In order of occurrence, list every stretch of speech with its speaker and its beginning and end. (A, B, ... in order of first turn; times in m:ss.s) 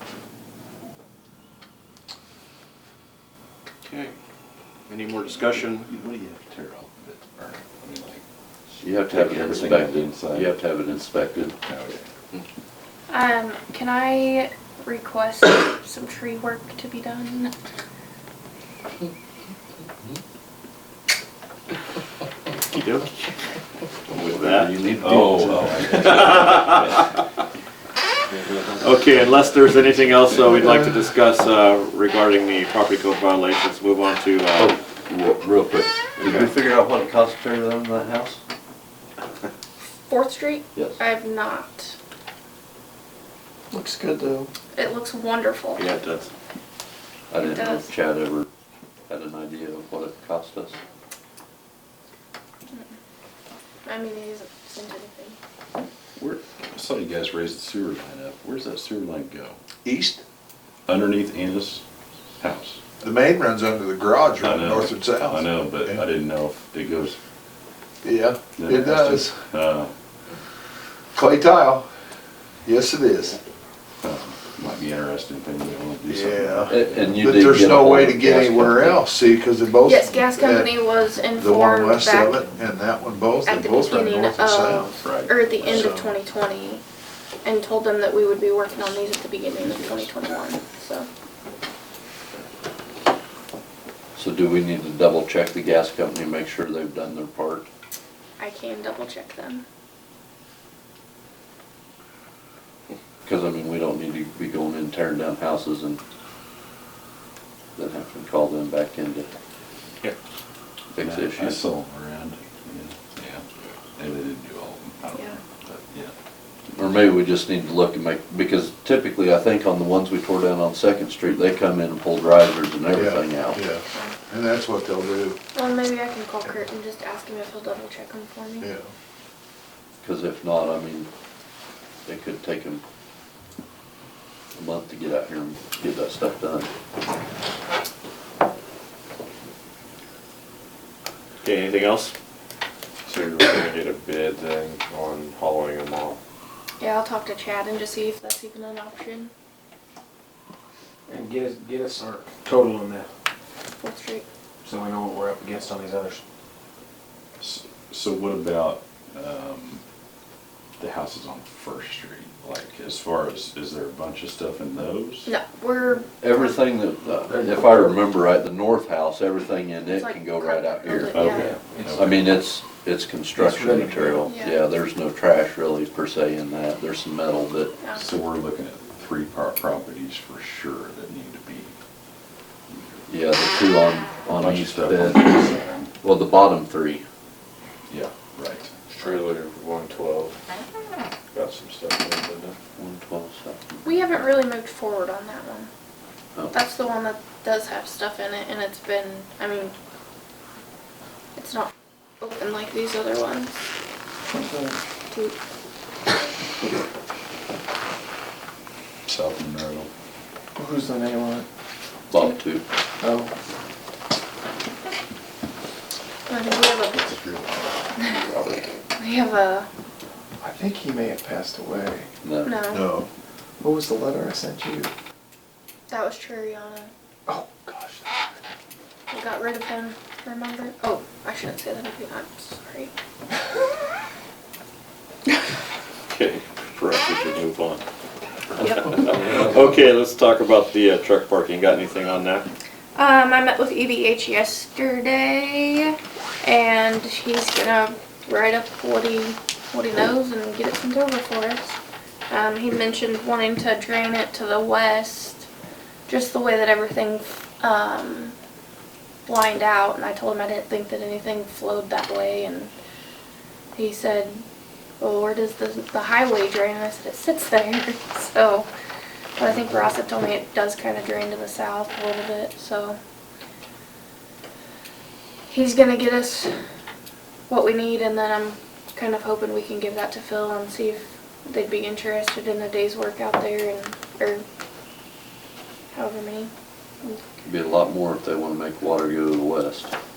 0:03.8-0:04.1 A
0:04.9-0:05.9 A
0:05.8-0:10.6 B
0:08.8-0:11.6 C
0:11.6-0:12.0 B
0:13.1-0:17.5 D
0:22.7-0:23.1 A
0:24.1-0:26.1 C
0:24.2-0:24.7 A
0:25.0-0:27.1 B
0:26.0-0:27.0 A
0:28.8-0:34.7 A
0:30.3-0:30.6 B
0:34.6-0:38.4 C
0:36.2-0:36.5 A
0:40.1-0:42.0 D
0:43.7-0:44.5 E
0:44.8-0:45.8 D
0:45.8-0:46.3 A
0:47.3-0:48.5 C
0:47.4-0:47.9 D
0:49.1-0:50.8 C
0:53.9-0:55.4 D
0:56.2-0:59.6 B
0:59.8-1:00.2 F
1:00.9-1:01.8 B
1:02.4-1:02.8 B
1:03.0-1:06.0 F
1:04.4-1:07.2 B
1:08.0-1:09.4 F
1:08.6-1:09.9 B
1:11.2-1:11.9 F
1:12.6-1:13.4 F
1:14.0-1:17.6 B
1:16.1-1:20.7 F
1:16.7-1:19.0 C
1:19.8-1:22.5 D
1:21.4-1:25.0 F
1:23.5-1:26.8 D
1:25.0-1:25.3 B
1:25.7-1:26.1 F
1:27.4-1:31.1 D
1:34.2-1:37.7 C
1:38.4-1:39.6 D
1:43.2-1:46.0 C
1:47.8-1:49.3 C
1:50.9-1:51.6 C
1:51.0-1:56.1 B
1:55.1-1:55.4 D
1:56.7-2:03.6 C
2:02.9-2:05.4 F
2:05.5-2:08.7 D
2:08.6-2:08.9 F
2:10.0-2:11.1 C
2:12.1-2:12.8 C
2:14.6-2:16.7 C
2:21.4-2:22.1 A
2:23.1-2:26.2 G
2:26.8-2:29.3 D
2:31.1-2:33.1 H
2:33.8-2:34.2 D
2:34.6-2:36.2 H
2:37.4-2:39.8 B
2:40.8-2:45.4 B
2:45.3-2:46.6 D
2:46.2-2:51.4 C
2:47.3-2:47.8 H
2:49.9-2:51.5 D
2:51.1-2:52.5 B
2:51.3-2:51.9 H
2:51.9-2:57.8 C
2:53.4-2:54.2 H
2:54.3-2:54.6 D
2:57.8-2:58.0 D
2:58.0-3:01.7 B
3:02.7-3:03.1 B
3:03.1-3:05.4 C
3:04.4-3:05.9 B
3:06.0-3:07.0 C
3:07.9-3:08.7 B
3:08.9-3:10.4 G
3:11.3-3:12.6 G
3:12.8-3:14.1 C
3:13.8-3:15.7 D
3:16.5-3:19.7 D
3:21.4-3:21.7 D
3:22.2-3:23.6 D
3:24.3-3:24.8 E
3:29.1-3:29.9 B
3:30.6-3:31.5 E
3:32.1-3:32.6 C
3:33.0-3:33.3 E
3:36.3-3:37.1 D
3:37.0-3:37.6 B
3:38.0-3:38.2 D
3:39.0-3:39.7 D
3:40.4-3:42.1 E
3:42.2-3:42.6 C
3:42.4-3:42.8 D
3:42.7-3:43.1 F
3:43.6-3:44.9 E
3:45.9-3:46.9 D
3:47.3-3:48.0 E
3:49.1-3:52.9 D
3:56.1-3:57.8 A
3:58.6-3:59.0 D
3:58.6-4:02.5 A
4:03.0-4:11.8 D
4:12.3-4:15.5 D
4:16.1-4:18.4 D
4:19.3-4:22.7 D
4:23.8-4:24.4 D
4:25.0-4:28.7 D
4:29.4-4:33.0 D
4:35.5-4:36.6 D
4:37.5-4:44.4 D
4:45.9-4:46.5 D
4:47.4-4:49.9 C